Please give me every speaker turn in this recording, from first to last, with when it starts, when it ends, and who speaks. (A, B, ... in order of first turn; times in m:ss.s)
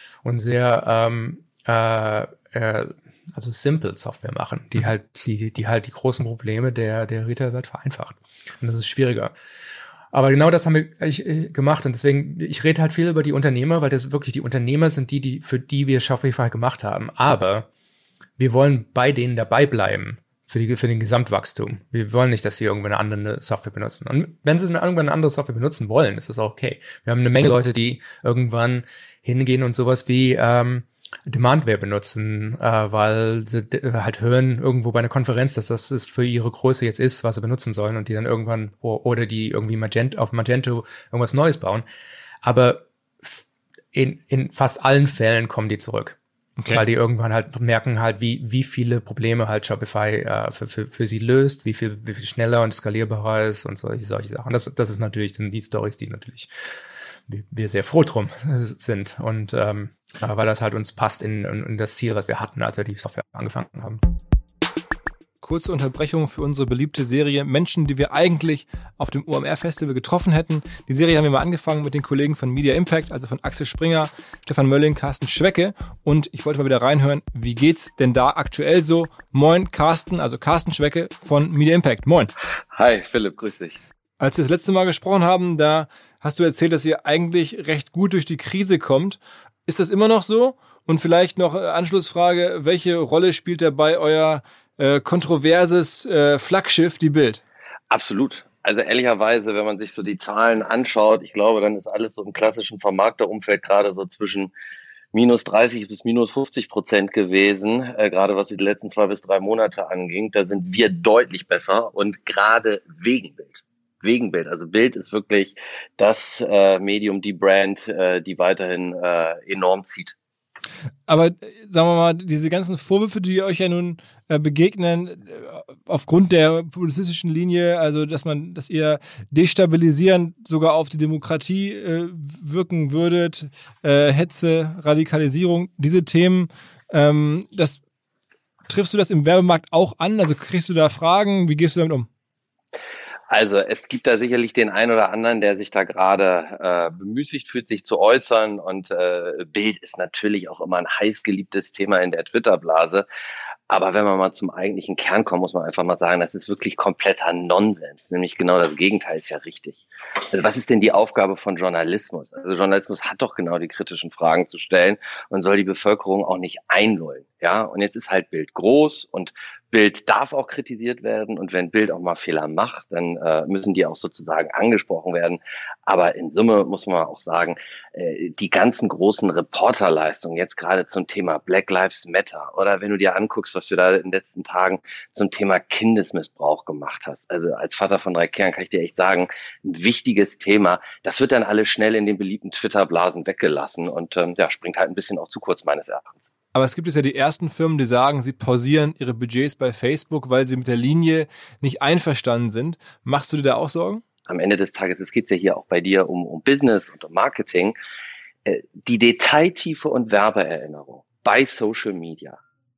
0:00.2-0:09.3 A
0:10.1-0:17.7 A
0:18.4-0:41.8 A
0:42.4-0:46.2 A
0:46.6-0:46.8 B
0:46.7-0:56.5 A
0:57.3-1:04.0 A
1:05.4-1:22.3 B
1:22.7-1:23.8 C
1:24.2-1:37.4 B
1:37.9-1:44.5 C
1:45.1-2:00.2 C
2:01.1-2:17.8 B
2:18.7-2:22.1 B
2:23.3-2:33.1 C
2:33.7-3:16.3 C
3:16.5-3:24.0 B
3:24.3-3:27.8 C
3:28.4-3:32.4 C